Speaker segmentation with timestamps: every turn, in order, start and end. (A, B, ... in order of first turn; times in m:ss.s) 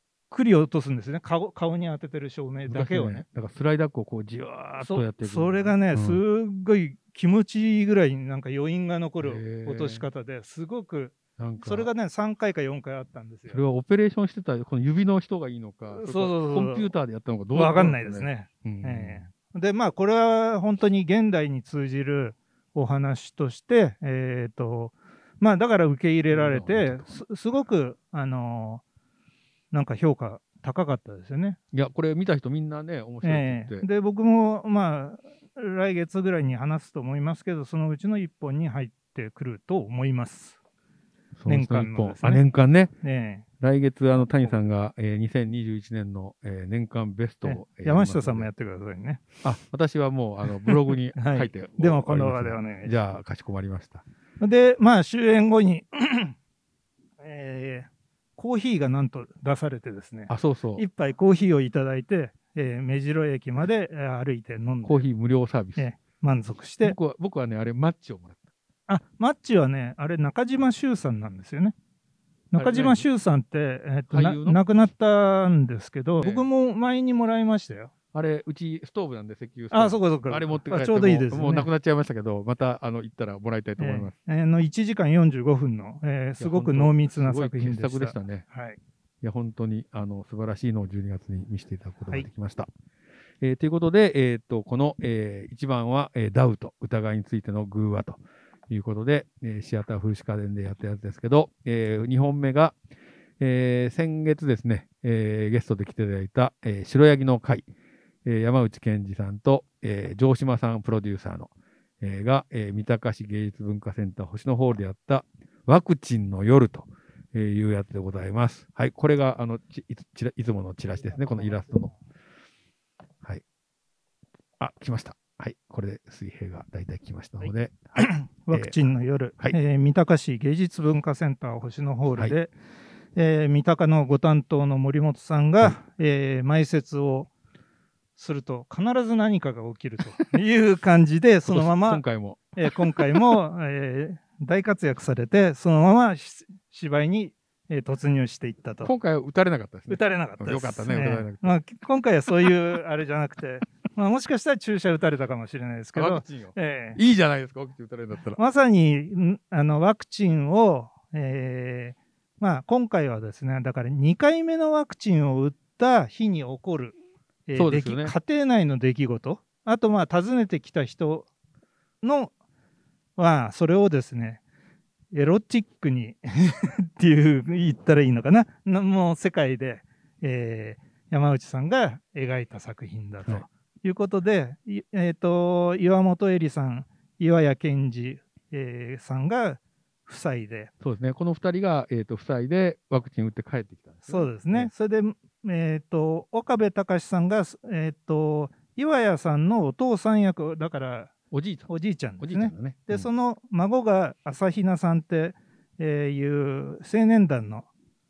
0:00.3-0:03.2 A
0:02.7-0:06.2 B
0:04.8-0:13.6 A
0:09.2-0:10.0 B
0:11.4-0:11.9 B
0:13.5-0:19.3 B
0:15.9-0:16.9 A
0:17.5-0:28.8 A
0:26.3-0:27.2 B
0:29.7-0:31.6 A
0:31.7-0:33.8 B
0:33.2-0:40.6 A
0:41.4-0:42.9 B
0:41.5-0:42.4 A
0:43.0-0:43.4 A
0:43.6-0:48.5 B
0:47.4-0:49.2 A
0:49.4-0:54.0 B
0:50.5-0:53.0 A
0:54.4-0:56.4 A
0:57.2-1:05.1 A
1:00.3-1:00.8 B
1:04.8-1:05.8 B
1:05.8-1:07.0 A
1:06.8-1:08.4 B
1:08.9-1:11.7 A
1:12.5-1:17.9 A
1:12.6-1:13.1 B
1:14.1-1:14.6 B
1:16.2-1:16.5 B
1:18.1-1:24.1 B
1:19.7-1:21.7 A
1:23.8-1:28.8 A
1:26.4-1:28.4 B
1:29.2-1:32.7 B
1:33.4-1:42.7 B
1:43.4-1:47.6 B
1:48.2-2:01.9 B
2:01.0-2:01.9 A
2:04.6-2:08.8 B
2:07.4-2:12.5 A
2:13.1-2:17.3 A
2:18.2-2:28.9 A
2:21.5-2:23.3 B
2:28.8-2:31.6 B
2:29.9-2:37.0 A
2:35.9-2:38.4 B
2:38.4-2:47.0 A
2:47.5-2:51.3 A
2:47.5-2:48.1 B
2:52.0-2:52.3 A
2:53.2-2:54.4 A
2:55.1-3:10.7 A
3:10.8-3:14.7 B
3:14.1-3:21.1 A
3:21.3-3:23.1 B
3:21.7-3:27.7 A